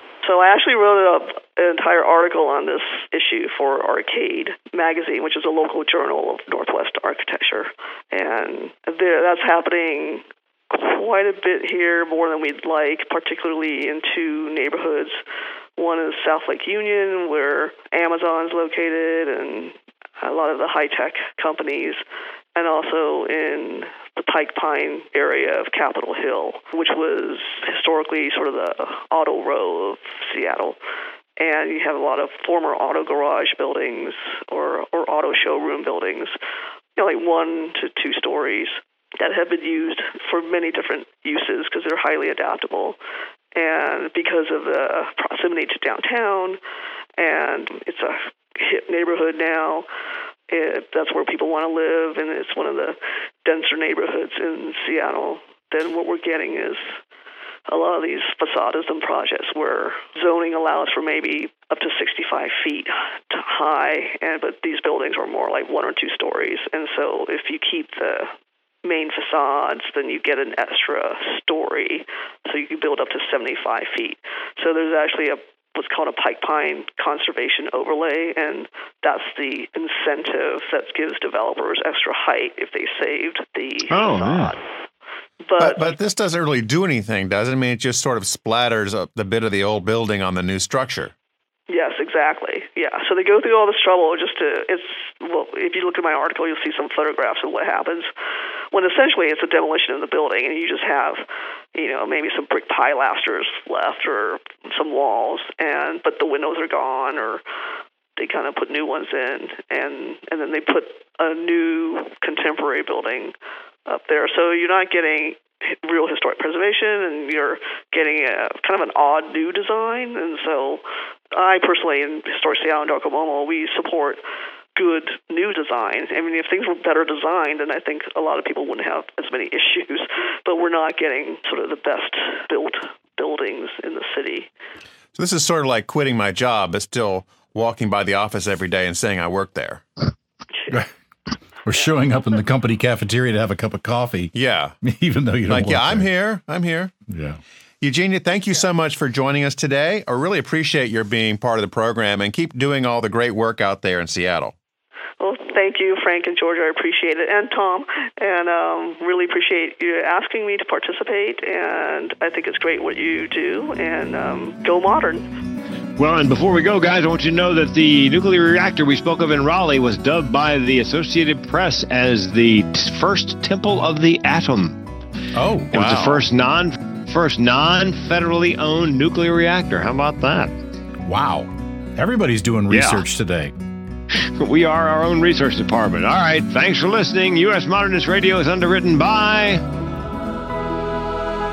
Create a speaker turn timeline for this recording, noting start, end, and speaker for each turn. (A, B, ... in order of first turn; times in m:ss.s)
0:00.2-0:15.2 A
0:15.8-0:22.0 A
0:22.5-0:30.8 A
0:31.4-0:36.3 A
0:37.0-0:43.0 A
0:43.5-0:46.6 A
0:47.2-0:49.8 A
0:50.5-0:56.9 A
0:57.7-1:08.3 A
1:08.8-1:24.6 A
1:23.9-1:24.5 B
1:25.4-1:25.9 A
1:25.6-1:31.1 C
1:31.7-1:38.1 A
1:38.7-1:41.2 A
1:41.7-1:47.4 A
1:48.2-1:53.3 A
1:53.9-2:00.8 A
2:01.3-2:04.2 A
2:04.8-2:14.5 A
2:15.1-2:19.8 C
2:21.6-2:26.1 D
2:24.3-2:24.8 C
2:25.5-2:26.9 C
2:27.1-2:27.4 D
2:27.8-2:34.5 C
2:35.2-2:45.3 A
2:46.0-2:54.8 B
2:55.3-2:55.7 D
2:55.7-3:00.5 B
2:55.7-2:56.2 C
3:01.0-3:03.5 D
3:02.7-3:03.0 B
3:04.1-3:09.6 B